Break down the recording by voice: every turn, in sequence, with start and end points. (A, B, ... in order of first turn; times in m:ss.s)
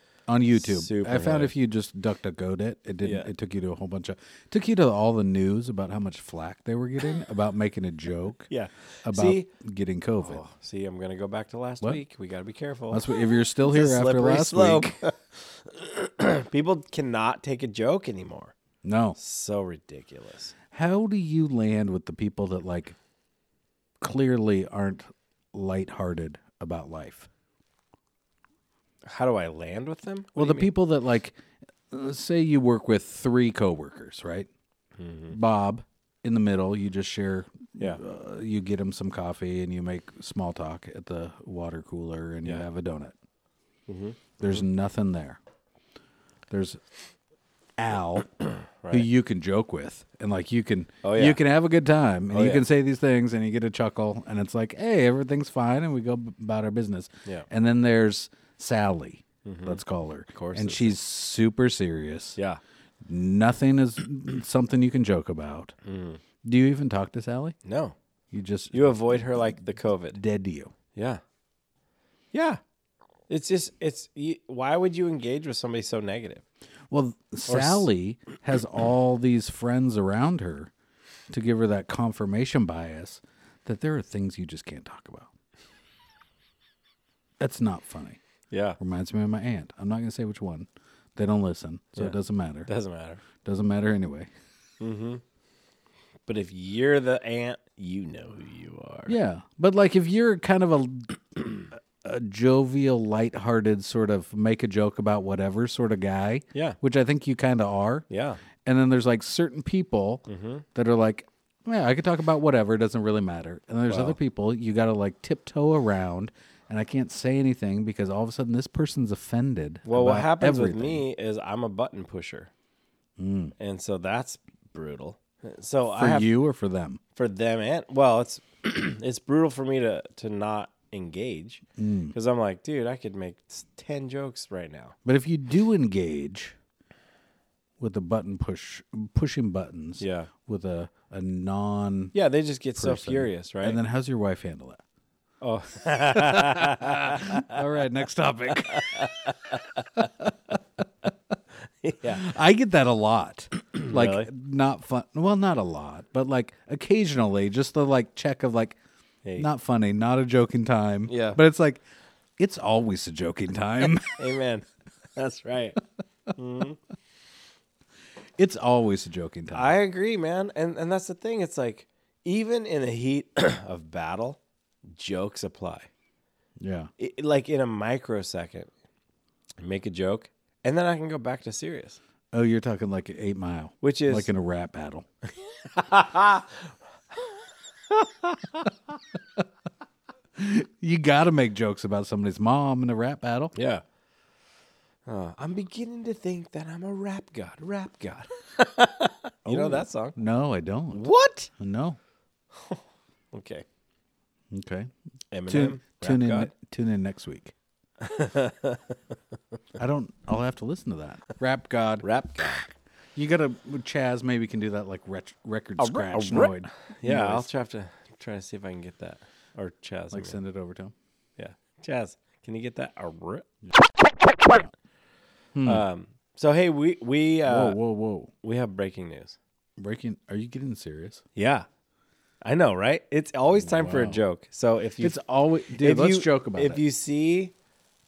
0:00.3-0:08.5 A
0:00.5-0:01.5 B
0:03.0-0:03.3 B
0:08.5-0:09.5 B
0:09.0-0:10.4 A
0:10.2-0:18.5 B
0:12.9-0:15.0 A
0:18.8-0:19.2 A
0:19.2-0:20.5 B
0:20.7-0:22.9 A
0:24.0-0:27.3 A
0:29.0-0:30.7 B
0:30.4-0:31.4 A
0:31.9-0:34.5 A
0:35.0-0:35.4 B
0:35.3-0:43.1 A
0:43.9-0:44.6 B
0:44.4-0:45.4 A
0:46.5-0:46.8 A
0:47.8-0:48.3 A
0:48.8-0:49.1 B
0:48.9-1:02.4 A
0:51.0-0:51.4 B
0:52.3-0:52.6 B
0:59.4-0:59.8 B
1:00.3-1:01.0 B
1:03.0-1:05.7 A
1:05.8-1:06.2 B
1:06.4-1:07.6 A
1:07.6-1:07.9 B
1:08.3-1:09.2 A
1:08.7-1:10.2 B
1:10.1-1:10.7 A
1:10.9-1:11.2 B
1:12.3-1:12.6 B
1:13.3-1:16.4 B
1:16.9-1:20.7 A
1:17.5-1:17.9 B
1:21.3-1:25.3 A
1:27.4-1:28.2 A
1:28.5-1:28.8 B
1:28.8-1:32.7 A
1:32.0-1:33.2 B
1:33.4-1:34.3 A
1:34.8-1:35.2 B
1:36.3-1:39.2 B
1:39.1-1:41.2 A
1:42.0-1:48.0 A
1:48.1-1:48.4 B
1:48.6-2:01.0 A
1:50.3-1:50.6 B
1:53.9-1:54.2 B
1:59.8-2:02.5 B
2:03.2-2:03.5 A
2:03.6-2:06.3 B
2:06.0-2:07.0 A
2:07.2-2:11.6 B
2:11.8-2:12.1 A
2:12.1-2:15.0 B
2:15.0-2:16.5 A
2:17.8-2:22.1 A
2:20.0-2:20.3 B
2:22.1-2:23.8 B
2:22.8-2:24.8 A
2:25.4-2:27.6 B
2:26.2-2:31.0 A
2:28.7-2:30.0 B
2:31.8-2:32.2 B
2:32.0-2:38.8 A
2:33.7-2:34.3 B
2:39.4-2:41.8 A
2:41.1-2:41.4 B
2:42.4-2:44.2 A
2:44.1-2:45.8 B
2:46.3-2:46.8 B
2:48.4-2:49.7 A
2:49.5-2:54.4 B
2:54.9-2:55.9 B
2:56.6-2:56.9 A
2:57.0-2:58.7 B
2:59.6-3:02.0 B
3:02.3-3:05.0 A
3:03.8-3:04.3 B
3:05.4-3:06.7 B
3:07.9-3:08.7 B
3:10.4-3:13.5 A
3:13.5-3:13.8 B
3:15.0-3:20.2 B
3:19.4-3:22.0 A
3:20.9-3:21.5 B
3:22.5-3:22.8 B
3:23.3-3:23.6 B
3:24.5-3:24.9 A
3:25.3-3:26.5 B
3:25.5-3:27.5 A
3:28.0-3:29.0 B
3:29.8-3:32.6 A
3:32.0-3:32.7 B
3:33.2-3:37.4 A
3:35.8-3:40.4 B
3:40.1-3:40.9 A
3:41.4-3:43.5 B
3:45.5-3:45.8 A
3:45.6-3:47.8 B
3:47.4-3:48.3 A
3:48.4-3:49.4 B
3:49.8-3:51.2 A
3:51.3-3:51.6 B
3:52.4-3:55.2 B
3:53.6-3:54.2 A
3:55.0-3:56.8 A
3:55.8-3:57.5 B